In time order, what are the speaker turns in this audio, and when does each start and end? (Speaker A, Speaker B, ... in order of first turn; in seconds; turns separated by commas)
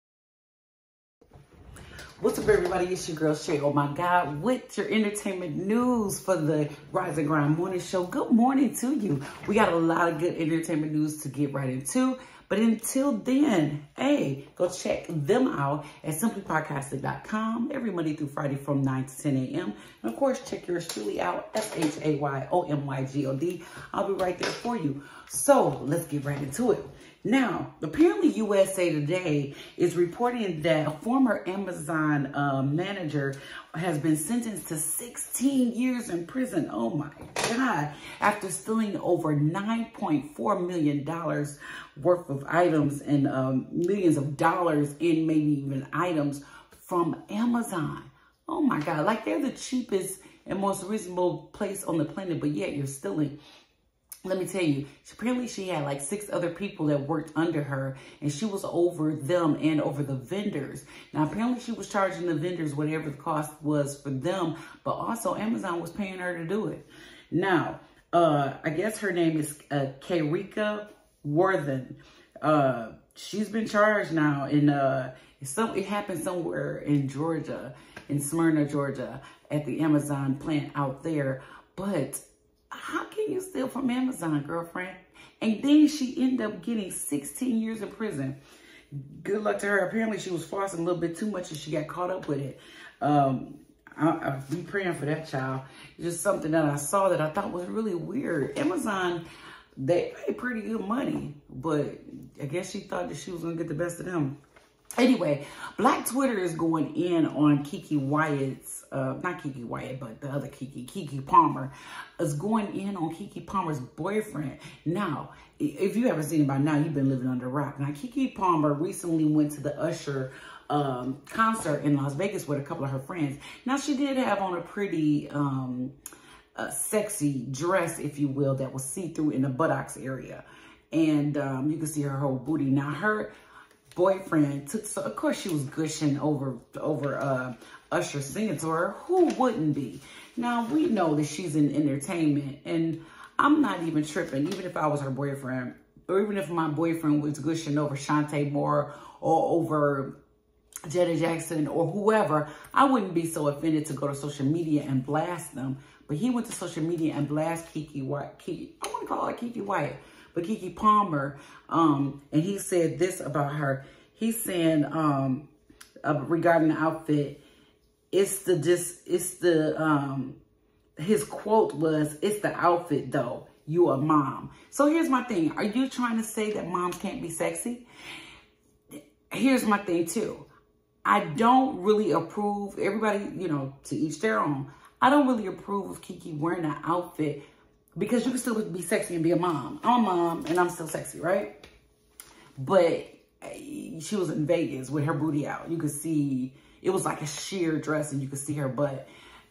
Speaker A: 2.2-53.4, Speaker A: 54.2-88.4, Speaker A: 89.2-99.2, Speaker A: 99.8-104.4, Speaker A: 105.0-125.9, Speaker A: 126.6-133.3, Speaker A: 133.9-150.1, Speaker A: 150.9-165.5, Speaker A: 166.0-167.4, Speaker A: 168.1-170.4, Speaker A: 171.0-177.8, Speaker A: 179.3-180.5, Speaker A: 181.0-187.4, Speaker A: 188.0-191.6, Speaker A: 192.6-199.1